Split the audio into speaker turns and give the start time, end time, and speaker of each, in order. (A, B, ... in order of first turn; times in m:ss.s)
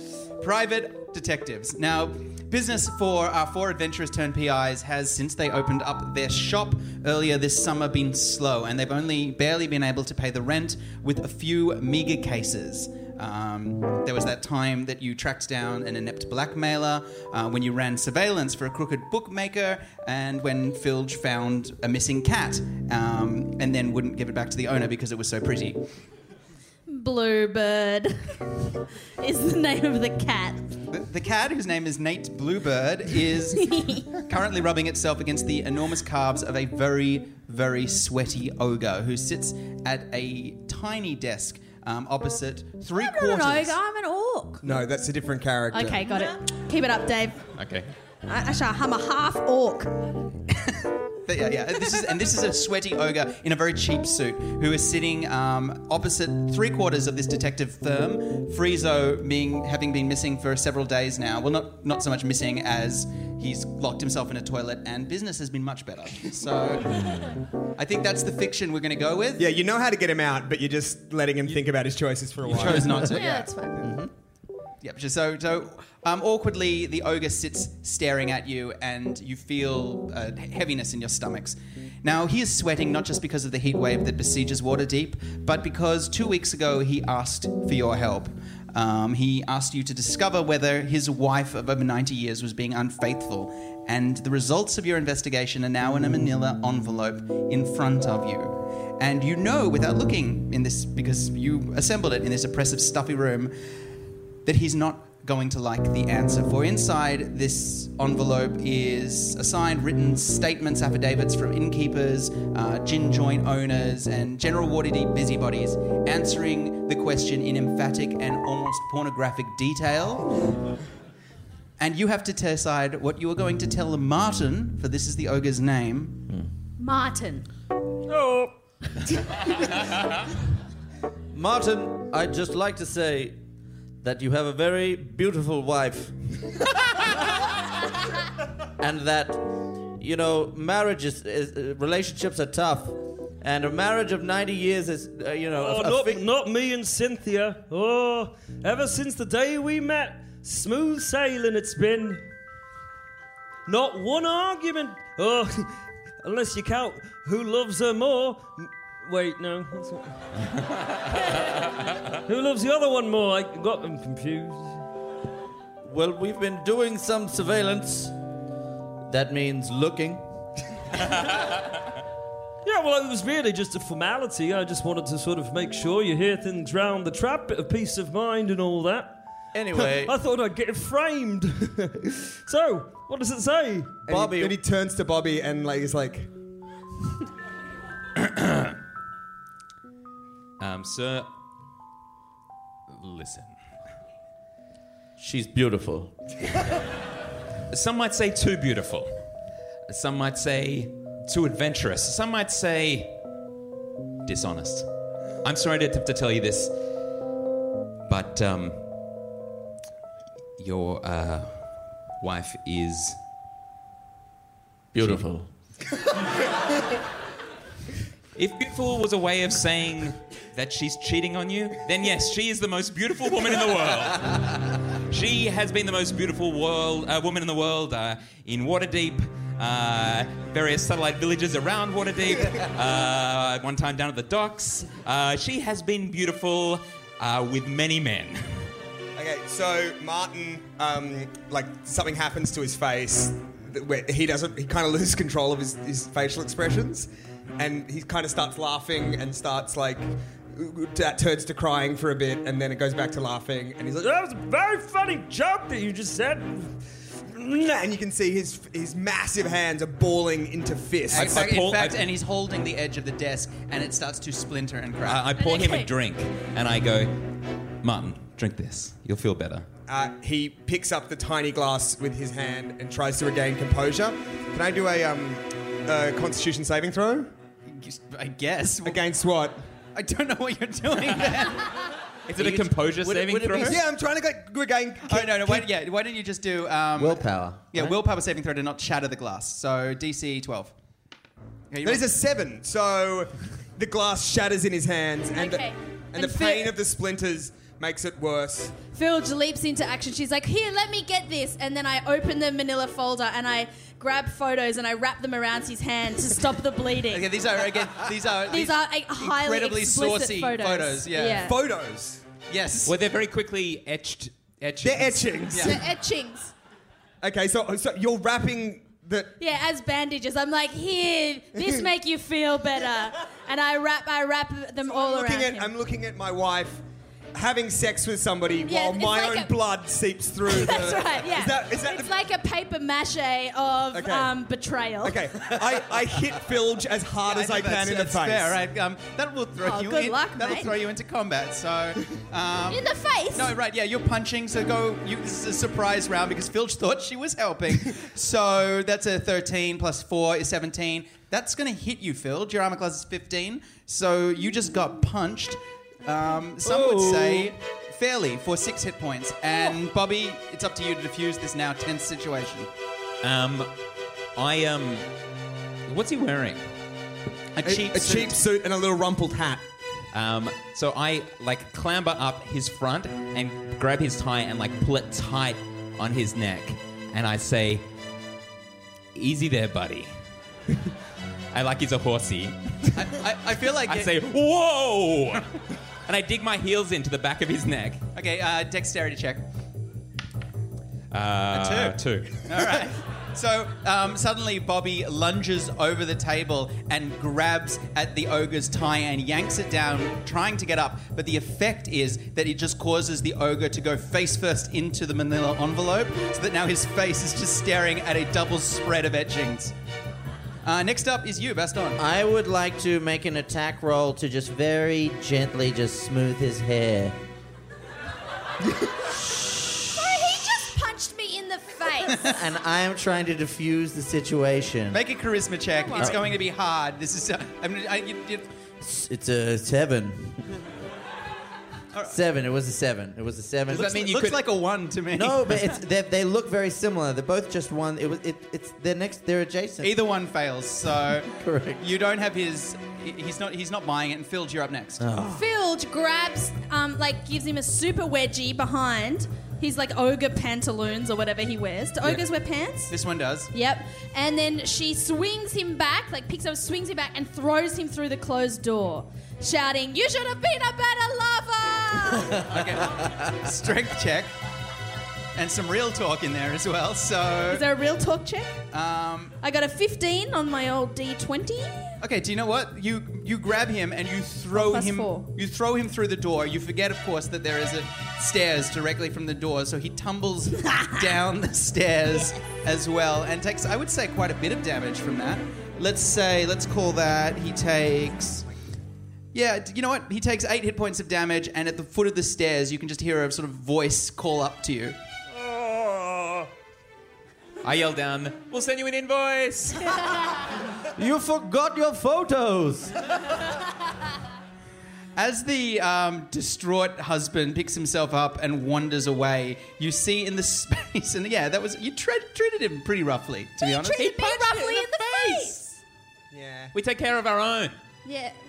0:00.4-0:25.8 A
0:26.9-0:28.4 B
0:29.2-0:30.6 B
0:30.9-0:43.8 A
0:33.6-0:34.0 B
0:42.9-0:44.6 B
0:44.6-0:46.0 C
0:45.7-0:47.4 B
0:47.5-0:47.9 D
0:48.2-0:50.1 B
0:51.2-1:07.0 A
1:06.9-1:07.3 E
1:07.8-1:09.4 A
1:09.4-1:13.2 C
1:12.4-1:13.5 A
1:13.1-1:13.8 B
1:13.8-1:14.1 E
1:14.8-1:43.5 A
1:44.4-2:00.3 A
2:01.8-2:06.2 A
2:06.8-2:07.5 B
2:08.1-2:08.5 F
2:11.3-2:13.4 E
2:14.0-2:16.2 E
2:18.8-2:26.2 E
2:25.6-2:32.3 F
2:33.6-2:40.2 F
2:42.2-2:44.8 F
2:45.8-2:48.1 E
2:49.1-2:50.2 E
2:52.6-2:59.2 F
2:59.5-3:00.1 E
2:59.8-3:04.0 F
3:04.1-3:04.6 E
3:04.1-3:06.3 C
3:08.2-3:08.7 D
3:10.6-3:11.3 D
3:12.9-3:13.6 D
3:15.2-3:16.1 E
3:17.7-3:19.1 D
3:19.9-3:23.2 D
3:24.2-3:24.9 D
3:25.4-3:26.7 D
3:28.1-3:29.1 D
3:30.6-3:33.2 D
3:34.9-3:35.5 E
3:38.4-3:58.7 D
3:59.2-4:14.1 C
4:14.0-4:16.7 F
4:17.3-4:21.5 C
4:21.1-4:25.2 A
4:21.1-4:22.0 D
4:25.0-4:27.2 D
4:25.4-4:25.9 B
4:27.8-4:29.6 D
4:29.9-4:37.3 C
4:37.7-4:39.0 A
4:38.8-4:39.6 C
4:39.9-4:41.9 A
4:42.3-4:43.8 D
4:42.4-4:43.8 E
4:43.6-4:45.7 C
4:45.0-4:50.7 A
4:47.0-4:48.0 E
4:51.7-4:52.1 A
4:51.8-4:58.8 C
4:55.3-4:56.7 B
4:58.9-5:07.3 B
5:07.1-5:11.4 A
5:08.5-5:11.6 B
5:11.3-5:12.2 C
5:12.5-5:13.0 A
5:12.8-5:15.4 D
5:14.8-5:15.8 C
5:15.5-5:15.8 A
5:15.6-5:16.5 B
5:17.2-5:19.3 C
5:19.4-5:25.7 B
5:21.6-5:21.8 C
5:24.8-5:26.8 C
5:27.3-5:32.1 C
5:28.6-5:29.5 B
5:30.5-5:35.2 B
5:33.9-5:34.4 C
5:35.0-5:38.6 C
5:37.2-6:02.7 A
5:39.6-5:40.7 B
5:42.7-5:43.5 B
5:56.6-5:57.5 F
6:03.2-6:03.7 D
6:04.3-6:05.0 D
6:05.8-6:06.6 D
6:07.5-6:08.4 A
6:07.6-6:09.6 C
6:10.1-6:17.8 D
6:19.1-6:20.1 D
6:21.5-6:22.9 D
6:22.9-6:24.1 A
6:23.8-6:28.0 D
6:28.1-6:29.4 A
6:31.1-6:32.4 D
6:31.5-6:49.7 A
6:50.6-6:52.0 A
6:52.0-6:57.2 E
6:59.9-7:02.2 B
7:02.2-7:05.0 E
7:04.9-7:08.5 A
7:06.0-7:06.2 E
7:08.8-7:10.4 E
7:12.1-7:14.0 E
7:13.7-7:15.8 A
7:13.8-7:14.4 D
7:15.1-7:19.9 E
7:19.8-7:25.0 A
7:21.3-7:21.8 E
7:25.0-7:25.4 E
7:25.3-7:32.9 B
7:32.9-7:33.5 A
7:33.5-7:42.4 B
7:42.4-7:44.3 A
7:45.3-7:47.6 A
7:47.5-7:48.6 B
7:48.7-7:49.3 A
7:49.4-7:51.9 B
7:52.0-8:08.5 A
7:54.5-7:55.3 B
8:09.3-8:15.0 A
8:15.4-8:16.4 F
8:17.6-8:20.0 D
8:20.9-8:23.0 E
8:25.1-8:34.1 A
8:33.6-8:35.8 B
8:34.1-8:35.5 D
8:36.3-8:36.7 C
8:36.7-8:37.7 D
8:38.0-8:38.4 B